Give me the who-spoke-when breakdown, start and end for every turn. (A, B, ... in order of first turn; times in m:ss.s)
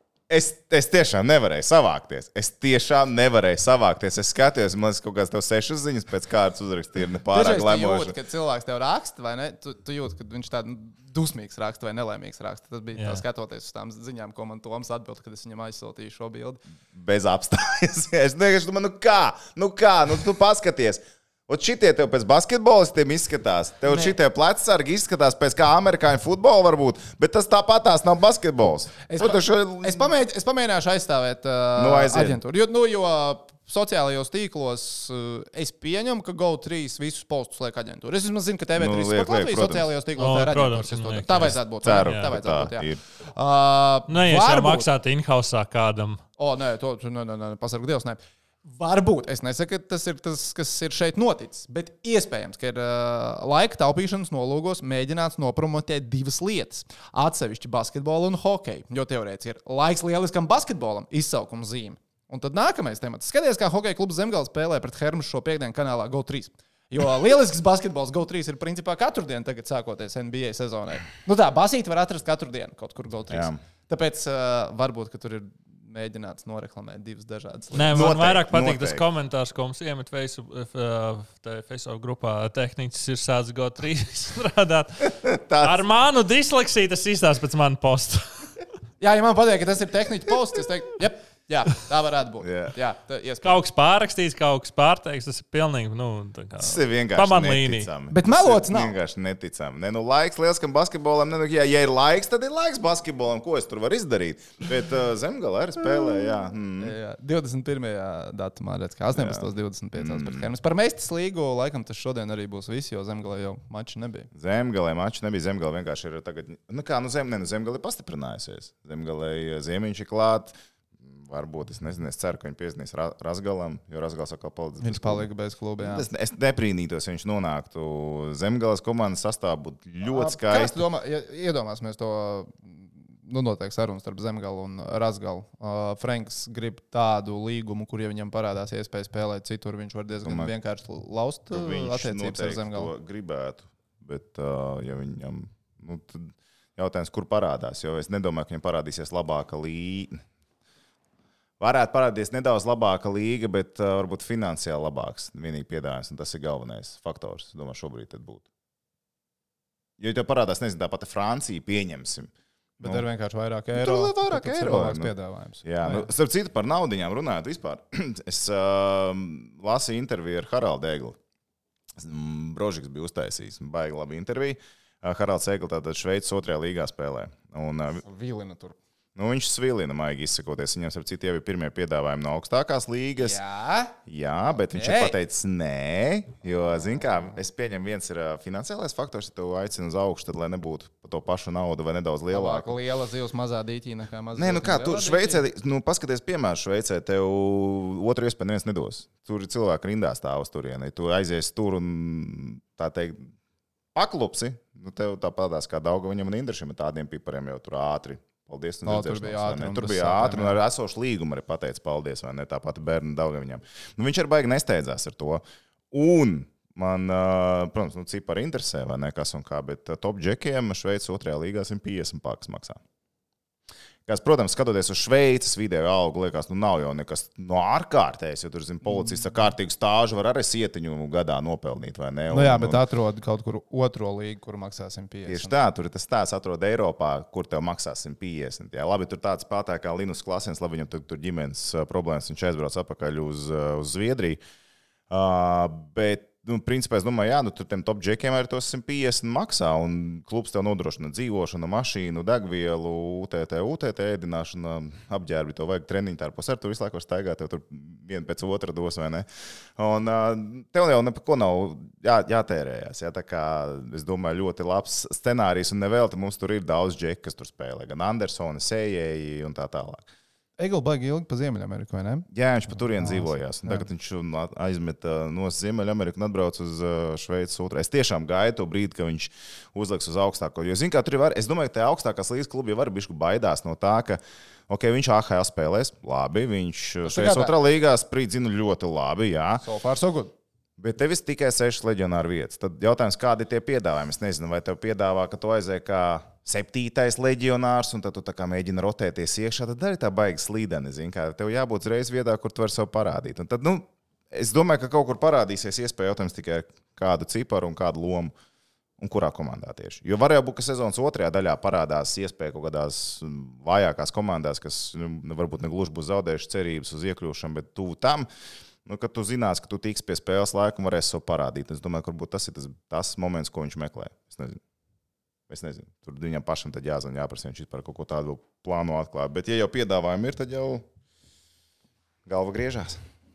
0:00.3-0:08.2 A
0:07.3-0:16.6 B
0:13.0-0:13.2 C
0:16.9-0:30.1 A
0:23.9-0:24.2 B
0:29.0-0:44.9 B
0:31.7-0:32.4 A
0:38.8-0:39.9 A
0:40.2-0:42.3 C
0:41.8-0:43.0 A
0:44.1-0:46.2 C
0:46.4-1:18.1 B
1:13.3-1:13.6 A
1:17.7-1:28.5 C
1:17.9-1:19.0 A
1:25.1-1:25.8 A
1:29.0-1:33.6 B
1:32.4-1:32.7 A
1:33.4-1:37.9 C
1:36.6-1:46.9 A
1:38.1-1:38.9 B
1:46.8-1:54.3 B
1:49.1-1:50.5 A
1:54.3-2:05.2 A
2:04.8-2:06.0 B
2:05.8-2:10.8 A
2:10.0-2:22.9 B
2:20.2-2:20.5 A
2:21.5-2:30.2 A
2:31.6-2:38.4 A
2:40.0-2:42.3 A
2:42.8-2:46.1 B
2:43.7-2:45.1 A
2:45.6-2:51.2 A
2:52.0-2:58.0 A
2:58.0-2:58.8 B
2:59.2-3:03.4 A
3:03.2-3:03.9 B
3:04.0-3:12.8 A
3:04.7-3:05.2 B
3:12.3-3:15.4 B
3:14.3-3:23.3 A
3:23.9-3:42.8 A
3:28.8-3:30.6 B
3:44.0-3:52.8 A
3:48.9-3:49.2 B
3:52.3-3:55.5 B
3:55.3-4:04.4 A
4:05.1-4:30.0 A
4:30.6-4:33.9 B
4:32.3-4:49.6 A
4:47.0-4:47.6 B
4:49.6-4:50.3 B
4:50.8-5:08.3 A
5:09.0-5:18.3 A
5:18.8-5:24.6 A
5:25.5-5:30.8 A
5:32.2-5:33.0 A